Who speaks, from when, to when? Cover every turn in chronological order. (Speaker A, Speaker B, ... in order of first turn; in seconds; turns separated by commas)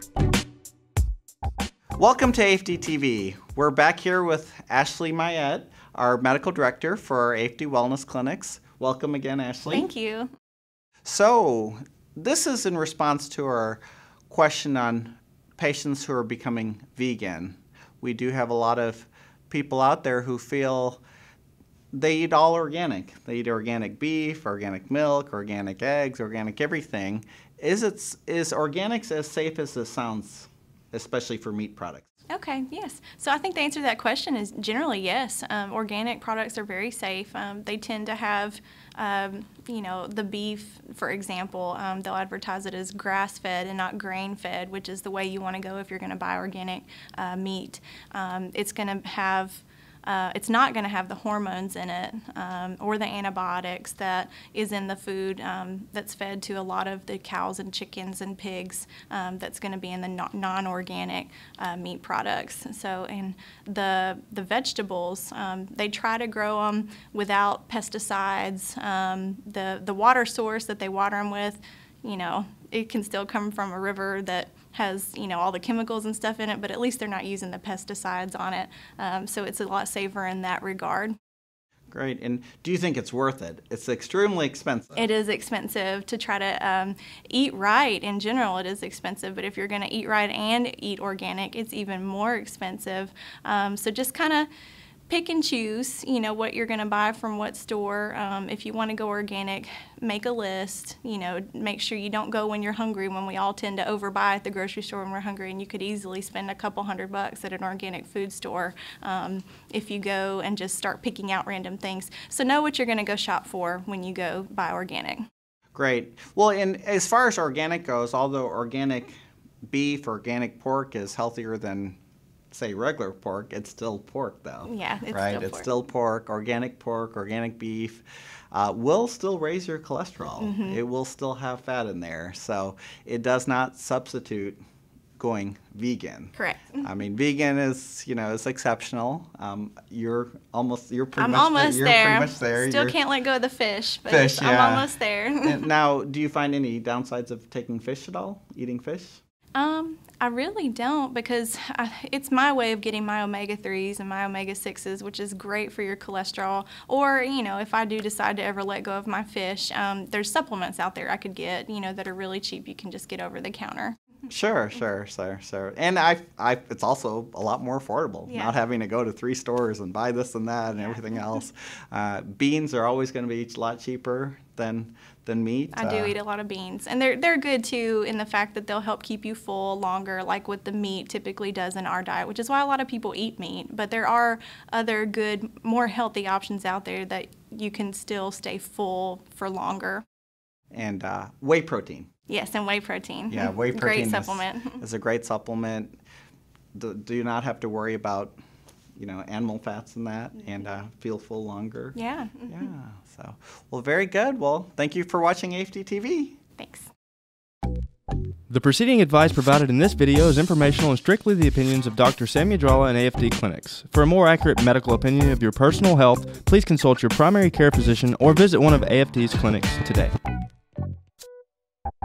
Speaker A: 2.0-9.9, Speaker B: 9.7-10.3, Speaker A: 11.0-21.0, Speaker A: 21.9-32.1, Speaker B: 32.3-81.1, Speaker A: 81.9-85.0, Speaker B: 85.0-94.5, Speaker B: 95.1-115.3, Speaker A: 115.7-119.1, Speaker A: 119.7-122.0, Speaker A: 122.5-134.6, Speaker B: 124.7-125.7, Speaker B: 130.4-130.8, Speaker A: 135.2-142.9, Speaker B: 136.3-136.8, Speaker B: 141.2-145.7, Speaker A: 144.1-144.9, Speaker A: 145.4-149.2, Speaker B: 149.5-163.9, Speaker A: 164.3-176.1, Speaker B: 168.3-168.5, Speaker B: 170.8-171.2, Speaker B: 175.7-190.0, Speaker A: 190.7-192.1, Speaker B: 192.3-194.8, Speaker A: 193.3-196.0, Speaker A: 196.7-198.3, Speaker A: 199.0-202.0, Speaker B: 201.9-202.7, Speaker A: 202.5-206.4, Speaker B: 206.6-206.9, Speaker C: 208.5-220.1